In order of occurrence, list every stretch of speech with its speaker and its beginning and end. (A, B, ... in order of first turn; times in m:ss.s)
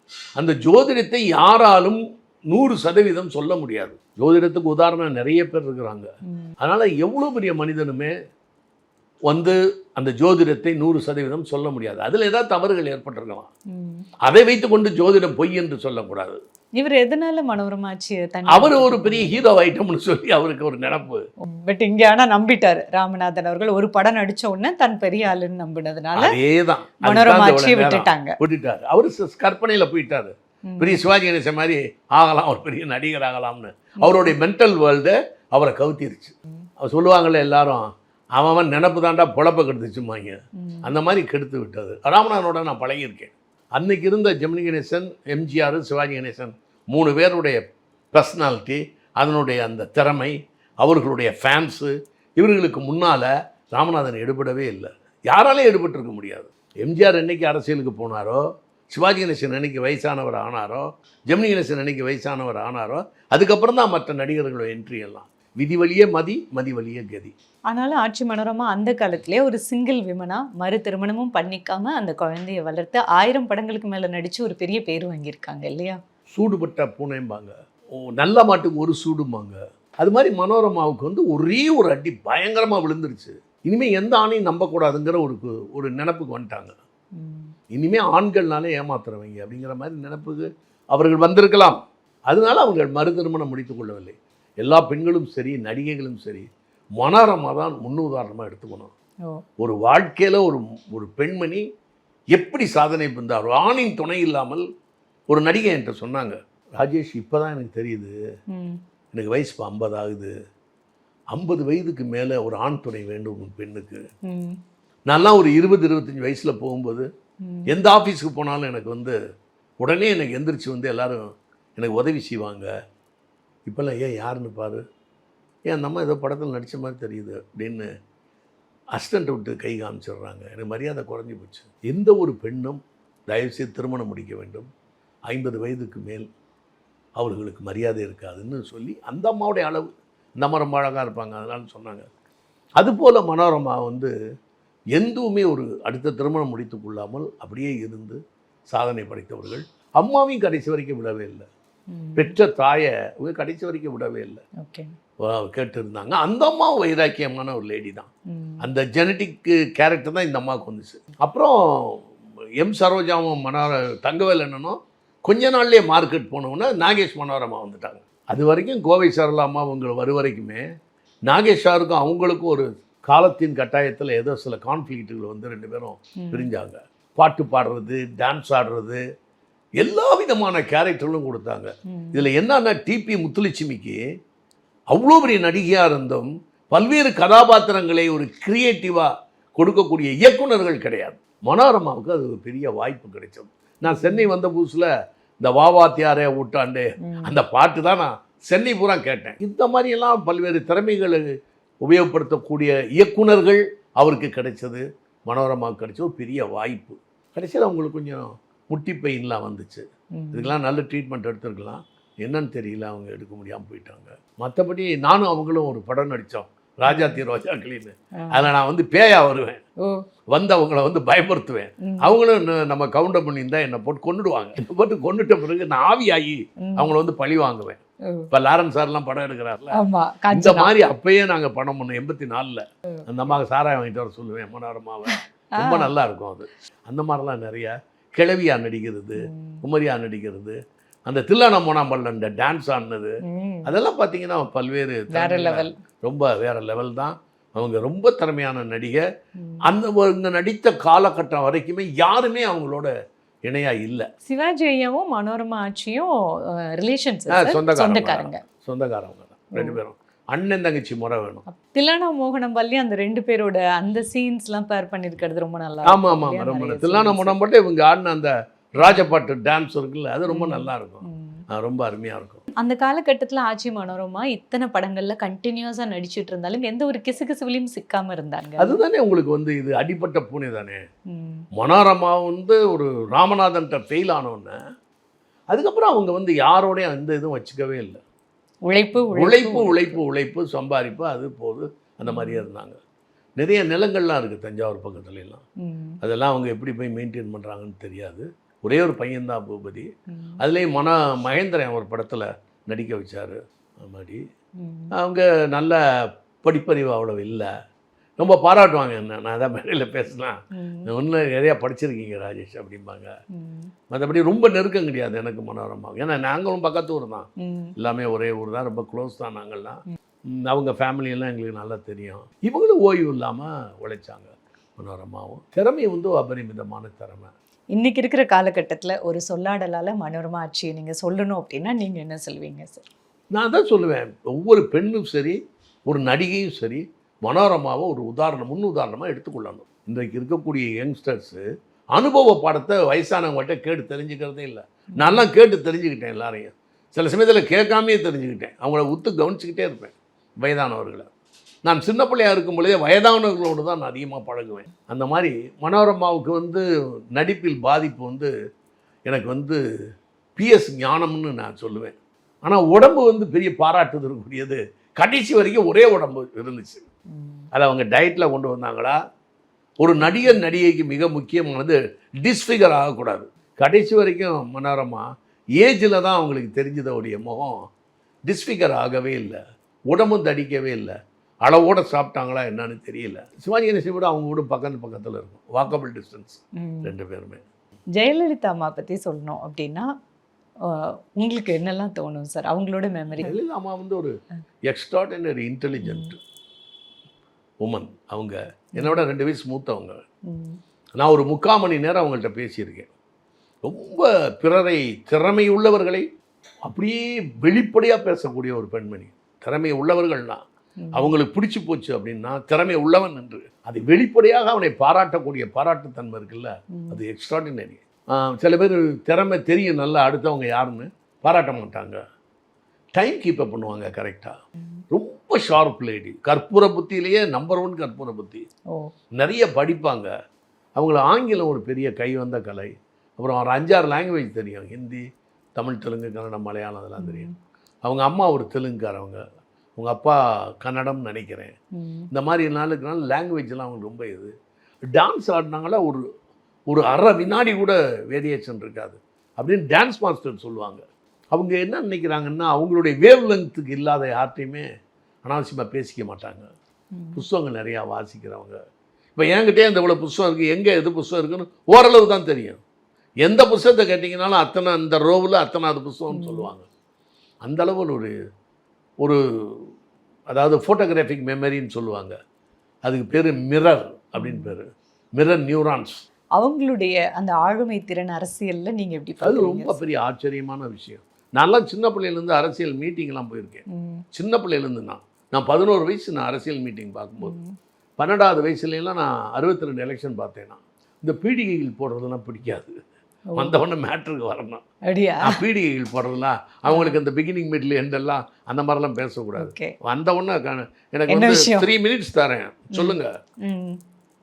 0:00.4-0:02.0 A
0:02.5-0:06.1 A
0:06.6-0:08.1 A
0:09.3-0:13.5 A
0:13.7-0:14.1 B
0:14.2-0:16.4 A
0:16.8-0:19.4 B
0:18.5-0:21.2 A
0:21.4-0:26.3 B
0:26.2-0:47.6 A
0:27.0-0:28.4 B
0:30.7-0:31.0 B
0:34.0-0:34.3 B
0:40.6-0:40.9 B
0:48.1-1:07.3 A
1:07.7-1:16.0 B
1:16.3-1:26.8 A
1:27.2-1:27.5 B
1:27.7-1:31.8 A
1:32.3-1:36.5 A
1:37.0-1:38.9 A
1:39.6-1:41.6 A
1:42.3-1:44.6 A
1:45.3-1:48.1 A
1:48.5-1:48.8 B
1:49.1-1:50.3 A
1:51.3-1:54.0 A
1:54.3-1:54.6 B
1:55.1-1:57.0 A
1:57.7-1:59.2 A
1:59.8-2:02.7 A
2:03.6-2:04.8 A
2:05.7-2:07.8 A
2:08.9-2:14.7 A
2:15.3-2:16.3 A
2:17.2-2:22.1 A
2:22.8-2:24.1 A
2:24.9-2:28.2 A
2:28.7-2:31.5 A
2:31.9-2:32.3 B
2:32.2-2:34.4 A
2:34.6-2:34.9 B
2:35.2-2:38.1 A
2:38.3-2:38.6 B
2:38.6-2:42.0 A
2:42.6-2:50.6 A
2:51.2-2:59.0 A
2:56.2-2:56.5 B
2:59.8-3:04.0 A
3:01.9-3:02.2 B
3:04.9-3:14.9 A
3:13.9-3:14.3 B
3:15.4-3:21.2 A
3:17.0-3:17.3 B
3:21.8-3:39.6 A
3:30.2-3:30.5 B
3:36.8-3:37.2 B
3:38.2-3:38.5 B
3:40.3-3:47.8 A
3:41.8-3:42.2 B
3:46.6-3:46.9 B
3:48.3-3:49.8 A
3:49.7-3:50.7 B
3:50.3-4:09.0 A
3:55.6-3:55.9 B
3:59.3-3:59.6 B
4:03.3-4:03.7 B
4:05.1-4:05.7 B
4:09.6-4:12.9 A
4:13.4-4:14.1 A
4:14.2-4:16.1 B
4:16.7-4:18.4 B
4:17.3-4:21.4 A
4:21.5-4:27.3 B
4:25.8-4:32.4 A
4:28.8-4:29.1 B
4:30.3-4:31.4 B
4:32.6-4:38.8 B
4:38.6-4:40.8 A
4:41.1-4:41.4 B
4:41.6-4:44.6 A
4:45.5-4:48.0 A
4:48.6-4:50.0 B
4:49.0-4:52.8 A
4:52.0-4:52.4 B
4:53.4-4:55.4 A
4:55.6-4:56.0 B
4:56.0-4:59.9 A
5:00.1-5:00.4 B
5:00.4-5:04.2 A
5:04.6-5:04.9 B
5:05.0-5:05.8 A
5:06.4-5:07.5 A
5:08.2-5:13.1 A
5:10.5-5:10.9 B
5:13.4-5:13.7 B
5:13.9-5:17.2 A
5:17.4-5:17.7 B
5:17.8-5:19.8 A
5:20.4-5:27.3 A
5:27.8-5:32.8 B
5:33.3-5:41.4 A
5:41.9-5:51.1 A
5:51.6-5:58.3 A
5:59.0-5:59.6 A
6:00.4-6:06.9 A
6:07.1-6:07.4 B
6:07.5-6:09.0 A
6:09.8-6:15.0 A
6:10.0-6:10.3 B
6:15.6-6:17.6 A
6:18.3-6:19.4 A
6:19.9-6:27.4 A
6:26.6-6:26.9 B
6:28.0-6:29.8 B
6:30.7-6:33.4 B
6:33.2-6:34.2 A
6:34.7-6:36.2 A
6:35.8-6:36.1 B
6:37.6-6:40.0 A
6:38.8-6:39.1 B
6:40.3-6:40.6 B
6:41.0-6:42.9 A
6:43.6-6:46.0 A
6:46.6-6:50.4 A
6:50.8-6:51.1 B
6:50.9-7:02.0 A
7:03.0-7:04.4 A
7:04.9-7:08.4 A
7:09.2-7:10.1 A
7:10.8-7:15.0 A
7:15.6-7:17.3 A
7:17.0-7:17.3 B
7:17.8-7:19.2 A
7:19.8-7:21.5 A
7:21.8-7:22.1 B
7:22.1-7:24.3 A
7:24.9-7:26.0 A
7:26.7-7:34.6 A
7:35.2-7:36.5 A
7:36.9-7:37.2 B
7:37.1-7:38.6 A
7:39.2-7:42.6 A
7:43.2-7:46.6 A
7:46.1-7:46.5 B
7:47.4-7:48.1 A
7:49.0-7:49.6 A
7:50.3-7:52.2 A
7:52.8-7:56.0 A
7:54.2-7:54.5 B
7:56.4-7:59.8 B
7:59.2-8:03.6 A
8:03.7-8:04.0 B
8:04.1-8:07.4 A
8:07.2-8:07.5 B
8:08.0-8:12.8 A
8:13.4-8:14.6 A
8:14.9-8:15.4 B
8:15.2-8:23.1 A
8:16.7-8:17.0 B
8:19.4-8:19.7 B
8:21.1-8:21.7 B
8:22.7-8:23.8 B